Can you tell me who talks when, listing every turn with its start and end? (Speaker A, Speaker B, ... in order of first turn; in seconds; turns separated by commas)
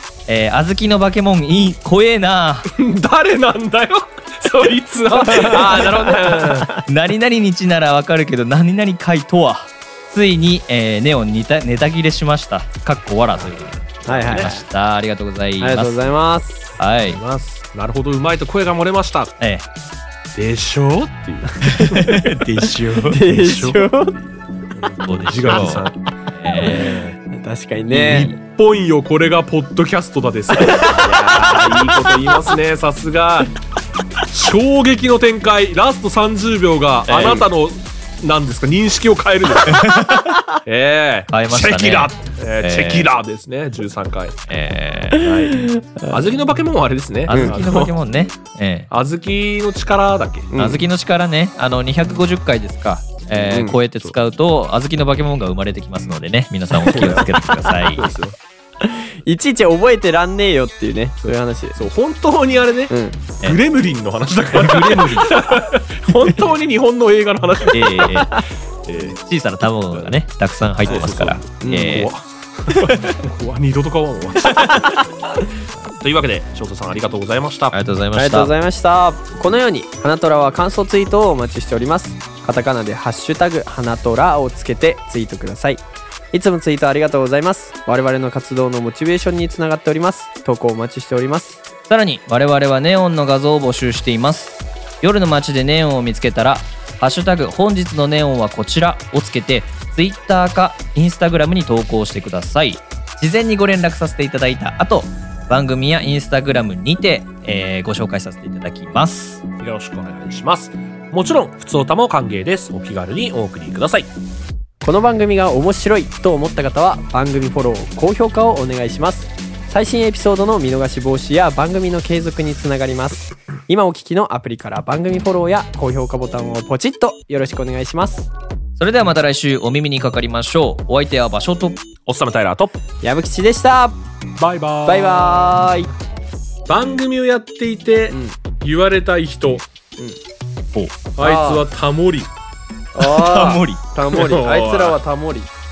Speaker A: 0.3-2.7, Speaker B: 2.7-6.7, Speaker C: 5.1-6.8, Speaker A: 6.8-16.1, Speaker B: 13.4-14.5, Speaker C: 14.1-14.7, Speaker C: 15.6-16.7, Speaker A: 16.8-17.2, Speaker B: 17.0-19.3, Speaker A: 19.4-19.7, Speaker B: 20.3-26.0, Speaker A: 21.7-23.2, Speaker C: 23.1-24.1, Speaker A: 24.8-27.0, Speaker C: 26.6-28.4, Speaker B: 26.6-27.1, Speaker B: 27.9-33.5, Speaker C: 30.5-32.3, Speaker B: 34.3-40.1, Speaker A: 37.1-37.4, Speaker A: 39.7-40.4, Speaker B: 40.6-44.4, Speaker A: 41.3-43.1, Speaker A: 44.5-45.3, Speaker B: 45.1-48.0, Speaker C: 45.5-46.2, Speaker A: 47.3-48.9, Speaker C: 47.3-47.6, Speaker B: 48.9-50.5, Speaker C: 50.5-50.8, Speaker A: 50.6-58.1, Speaker C: 53.5-53.8, Speaker C: 56.9-57.2, Speaker B: 56.9-57.2, Speaker B: 57.9-58.4, Speaker C: 58.8-61.8, Speaker B: 61.2-68.2, Speaker C: 62.9-63.2, Speaker A: 64.5-65.6, Speaker A: 67.7-68.4, Speaker C: 68.1-68.4, Speaker B: 68.8-69.2, Speaker A: 69.2-72.1, Speaker B: 69.9-70.2, Speaker B: 70.8-75.0, Speaker C: 71.6-72.1, Speaker C: 74.5-75.0, Speaker B: 75.9-77.8, Speaker A: 77.7-78.5, Speaker C: 78.1-91.6, Speaker A: 91.9-109.4, Speaker B: 109.6-114.1, Speaker C: 114.8-128.3, Speaker A: 128.8-131.8, Speaker B: 132.1-132.7, Speaker C: 133.0-134.0, Speaker B: 134.4-135.6, Speaker C: 134.9-135.9, Speaker B: 136.7-139.6, Speaker C: 138.1-138.4, Speaker B: 141.2-142.3, Speaker C: 141.2-141.6, Speaker C: 142.9-145.5, Speaker A: 143.0-143.8, Speaker B: 144.1-145.0